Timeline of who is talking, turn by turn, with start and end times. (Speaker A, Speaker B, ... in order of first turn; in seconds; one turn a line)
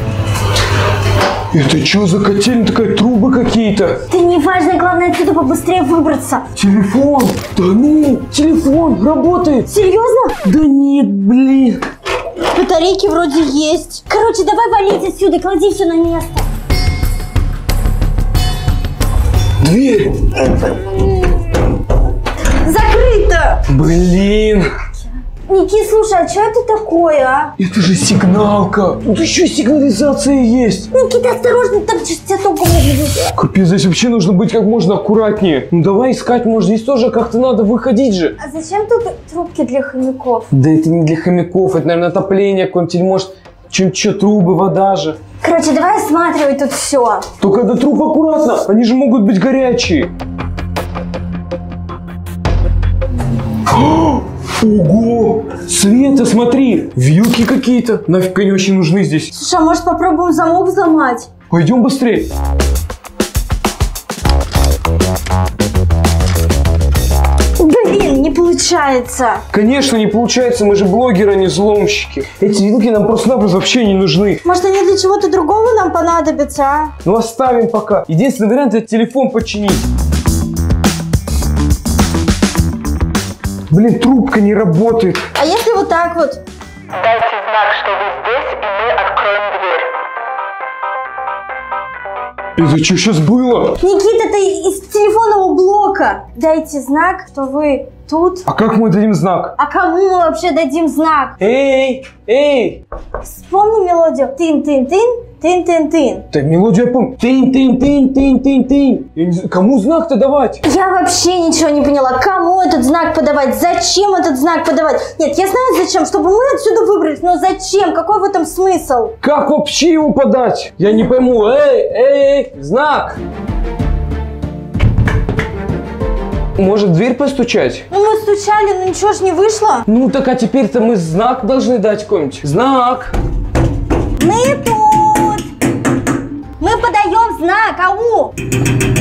Speaker A: 1.5-4.0
Speaker B: 4.1-6.5
Speaker A: 6.5-9.7
Speaker B: 9.7-10.3
Speaker A: 10.4-11.8
Speaker B: 12.5-16.5
Speaker A: 19.6-20.7
Speaker B: 20.8-21.3
Speaker B: 22.6-23.6
Speaker A: 23.7-24.7
Speaker B: 25.5-27.5
Speaker A: 27.6-30.9
Speaker B: 30.9-33.3
Speaker A: 33.4-38.4
Speaker B: 38.4-40.5
Speaker A: 40.5-45.2
Speaker B: 45.4-47.3
Speaker A: 47.4-50.1
Speaker A: 53.7-59.3
Speaker B: 59.3-61.3
Speaker A: 61.5-62.3
Speaker B: 67.6-69.4
Speaker A: 69.5-74.4
Speaker B: 74.4-76.9
Speaker A: 77.0-79.9
Speaker A: 83.7-85.2
Speaker B: 85.3-86.4
Speaker C: 86.9-89.9
Speaker A: 92.5-93.8
Speaker B: 93.8-98.4
Speaker A: 98.5-99.5
Speaker B: 99.6-101.3
Speaker A: 101.4-102.8
Speaker B: 103.2-106.3
Speaker A: 106.3-110.6
Speaker B: 110.6-119.1
Speaker A: 119.2-123.2
Speaker A: 126.6-127.9
Speaker B: 127.9-129.9
Speaker A: 129.9-133.1
Speaker B: 134.2-135.4
Speaker B: 136.6-138.3